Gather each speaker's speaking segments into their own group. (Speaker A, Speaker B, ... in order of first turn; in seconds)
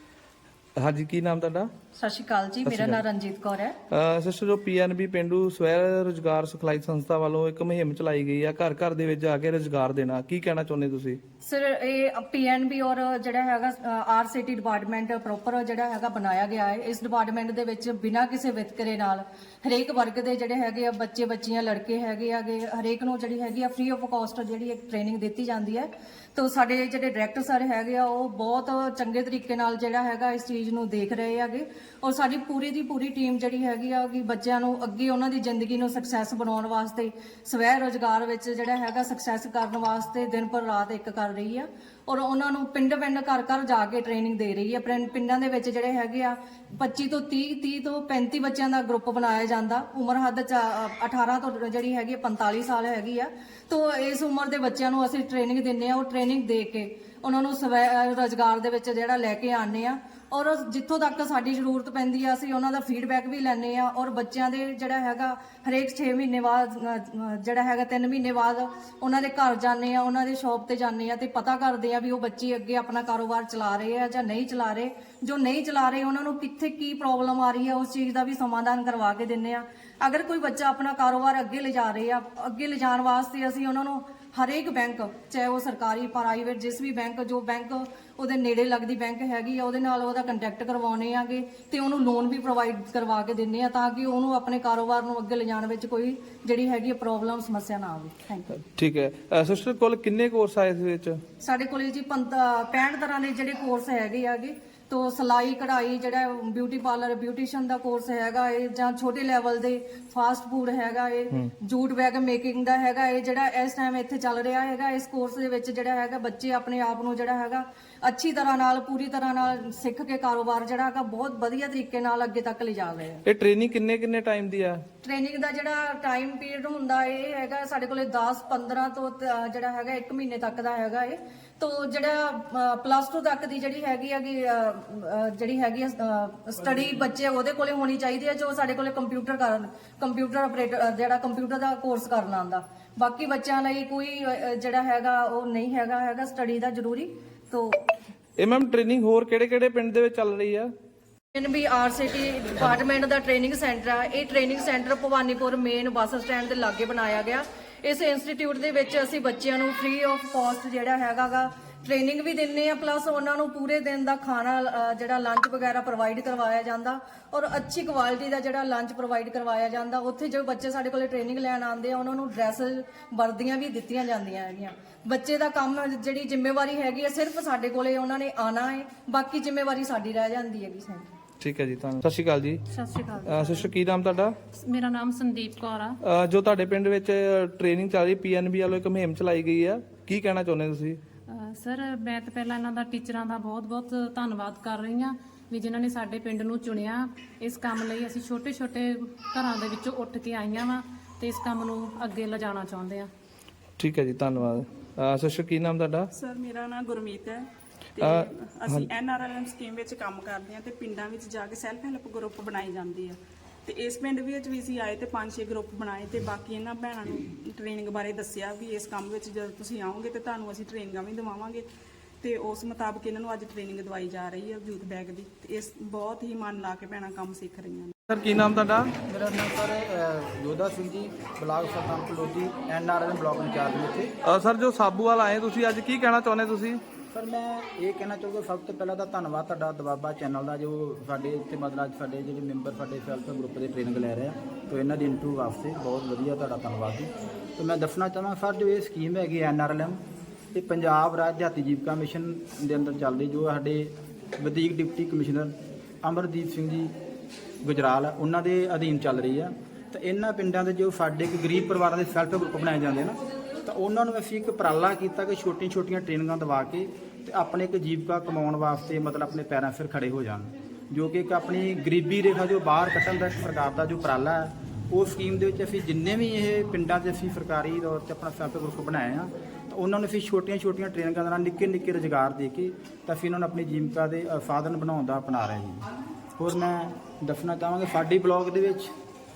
Speaker A: 0.8-1.7, 2.6-3.0, 3.9-11.2, 98.8-101.2, 123.3-124.8, 148.4-150.7, 181.4-182.6, 183.2-184.4, 186.0-191.0, 203.8-206.1, 208.0-208.9, 228.1-228.9, 234.2-236.8
Speaker B: 1.9-3.8, 11.4-98.5, 101.4-123.2, 125.0-147.9, 151.3-181.1
Speaker C: 182.7-183.7, 184.6-186.0, 191.3-203.1
Speaker D: 206.1-221.6, 222.2-227.9
Speaker E: 229.1-234.1, 237.1-250.0, 250.5-256.9, 257.6-285.9, 286.4-288.9